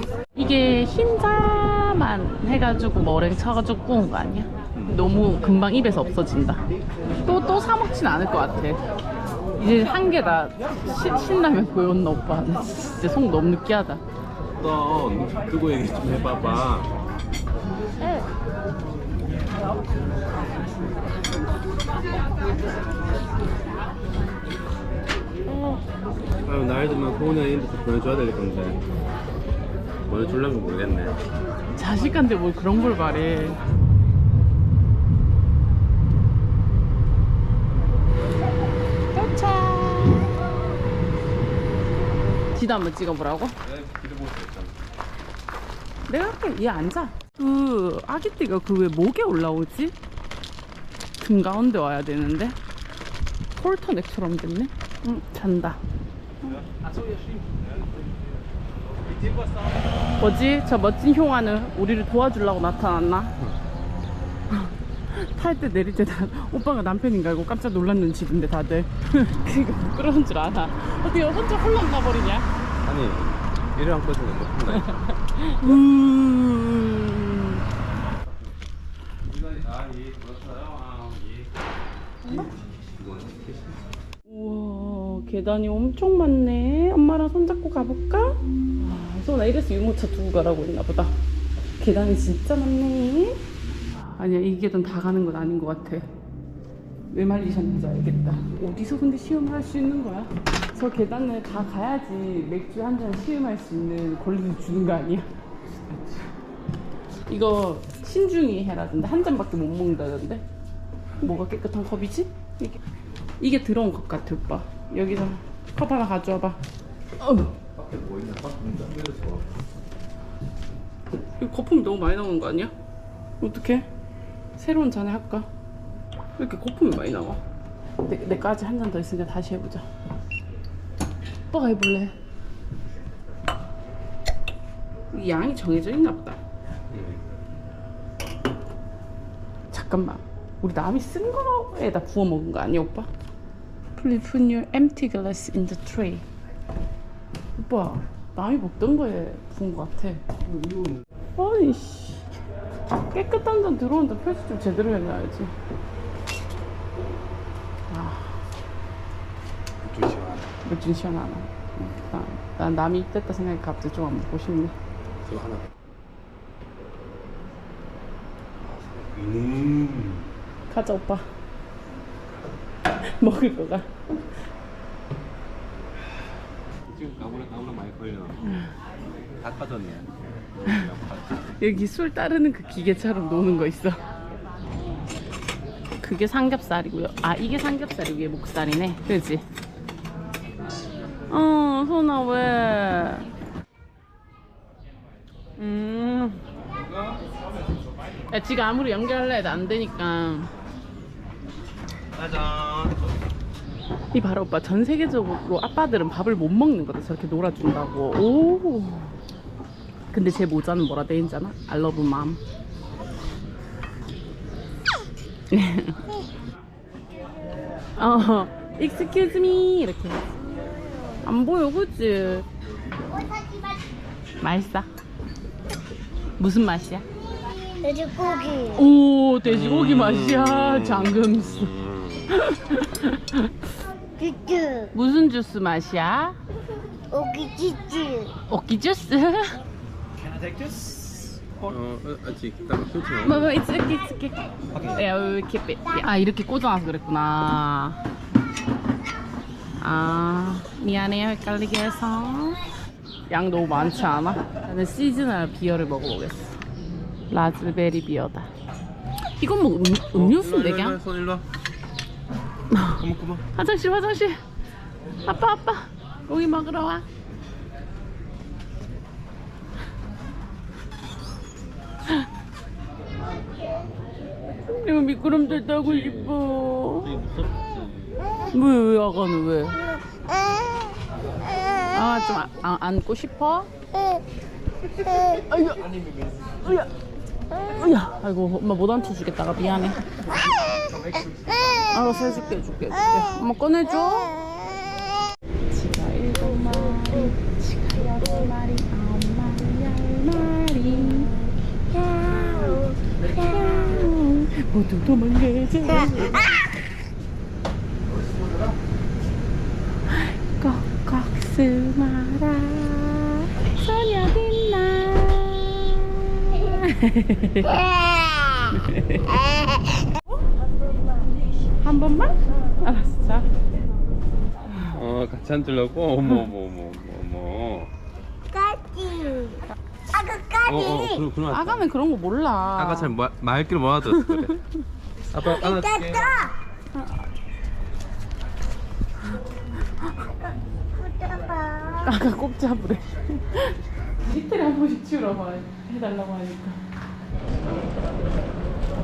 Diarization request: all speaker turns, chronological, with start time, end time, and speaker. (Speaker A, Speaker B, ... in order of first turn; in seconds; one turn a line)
Speaker A: 0.3-6.6
Speaker B: 4.7-5.0
Speaker A: 7.2-8.8
Speaker A: 9.6-14.0
Speaker B: 14.6-16.9
Speaker B: 26.4-28.8
Speaker B: 30.1-31.2
Speaker A: 31.8-33.6
Speaker A: 39.1-40.3
Speaker A: 42.5-43.5
Speaker B: 43.6-44.8
Speaker A: 46.1-49.9
Speaker A: 51.2-52.5
Speaker A: 53.5-55.8
Speaker B: 56.7-57.5
Speaker B: 59.1-59.5
Speaker A: 60.2-63.3
Speaker A: 64.5-72.5
Speaker B: 72.8-75.1
Speaker A: 74.8-77.6
Speaker B: 79.3-81.5
Speaker A: 82.2-82.5
Speaker B: 82.4-83.8
Speaker A: 84.2-91.2
Speaker A: 91.8-93.4
Speaker A: 94.0-96.0
Speaker A: 97.1-105.3
Speaker B: 105.8-106.1
Speaker A: 107.3-110.4
Speaker A: 111.2-112.8
Speaker A: 113.4-116.6
Speaker A: 117.2-117.5
Speaker B: 117.7-119.5
Speaker A: 121.4-122.7
Speaker A: 123.4-123.9
Speaker A: 124.6-125.5
Speaker A: 126.4-127.4
Speaker A: 128.0-129.8
Speaker A: 131.5-132.1
Speaker A: 135.1-136.4
Speaker B: 136.9-137.2
Speaker A: 139.7-143.1
Speaker A: 144.0-146.2
Speaker A: 147.6-150.2
Speaker B: 150.5-151.0
Speaker A: 151.4-152.3
Speaker A: 152.9-155.5
Speaker A: 157.9-158.4
Speaker B: 159.8-160.5
Speaker A: 160.6-164.7
Speaker B: 165.2-165.7
Speaker B: 168.6-170.3
Speaker A: 170.7-171.3
Speaker A: 173.0-173.9
Speaker B: 176.9-178.6
Speaker B: 179.4-181.5
Speaker A: 181.6-184.0
Speaker A: 186.0-189.4
Speaker A: 191.3-193.3
Speaker B: 195.6-196.4
Speaker A: 198.3-200.5
Speaker B: 202.1-203.1
Speaker A: 204.1-209.2
Speaker A: 210.1-212.4
Speaker A: 215.5-216.1
Speaker A: 218.0-220.3
Speaker A: 221.2-222.5
Speaker C: 223.2-223.8
Speaker A: 224.4-224.9
Speaker A: 226.4-227.0
Speaker C: 227.7-228.9
Speaker A: 228.7-231.7
Speaker B: 229.4-232.5
Speaker A: 232.3-233.6
Speaker C: 234.2-234.9
Speaker A: 234.9-236.4
Speaker C: 237.1-238.3
Speaker A: 238.5-239.6
Speaker B: 240.4-243.5
Speaker A: 243.2-248.0
Speaker A: 249.8-252.7
Speaker A: 253.3-256.6
Speaker A: 257.3-258.5
Speaker A: 259.4-261.0
Speaker B: 260.1-261.5
Speaker A: 262.7-263.0
Speaker B: 262.9-263.5
Speaker A: 263.5-264.4
Speaker A: 265.2-267.1
Speaker A: 274.5-277.1
Speaker B: 275.3-278.2
Speaker A: 278.5-279.9
Speaker A: 281.9-283.7
Speaker A: 285.2-285.9
Speaker A: 286.6-286.9
Speaker A: 287.6-290.0
Speaker A: 291.9-294.4
Speaker A: 295.7-301.4
Speaker A: 302.0-306.6
Speaker C: 302.1-302.9
Speaker A: 310.1-317.8
Speaker A: 318.6-319.9
Speaker A: 321.8-323.5
Speaker A: 324.7-324.9
Speaker B: 324.8-327.9
Speaker C: 328.5-331.2
Speaker B: 330.6-331.9
Speaker A: 331.5-333.1
Speaker B: 332.8-334.6
Speaker A: 334.1-334.7
Speaker B: 335.3-336.4
Speaker C: 335.5-336.5
Speaker A: 336.9-337.2
Speaker C: 340.9-342.1
Speaker A: 342.0-346.8